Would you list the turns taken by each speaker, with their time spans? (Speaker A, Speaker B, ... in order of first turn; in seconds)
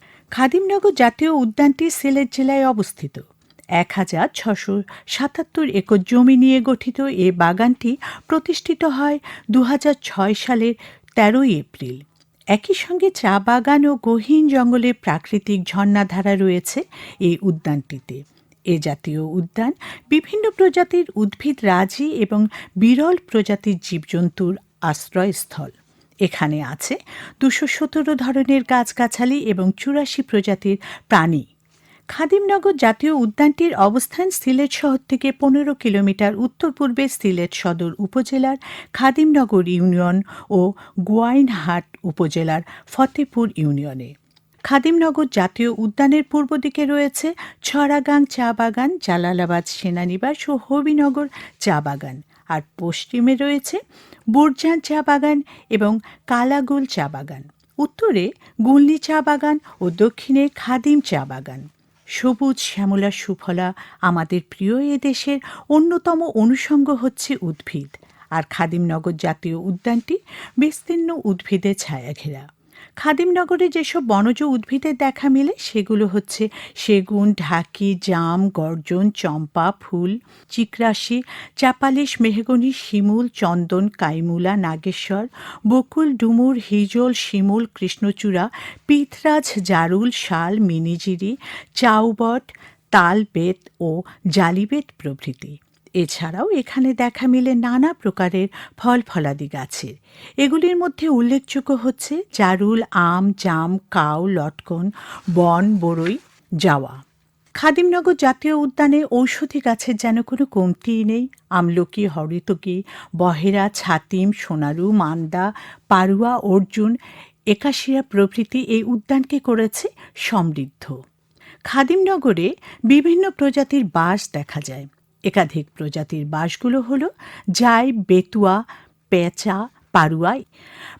Speaker A: 0.4-3.2, 3.8-25.7, 26.2-31.5, 32.1-44.1, 44.7-53.8, 54.3-61.6, 62.2-72.5, 73.0-107.0, 107.6-117.0, 117.5-121.0, 121.7-130.4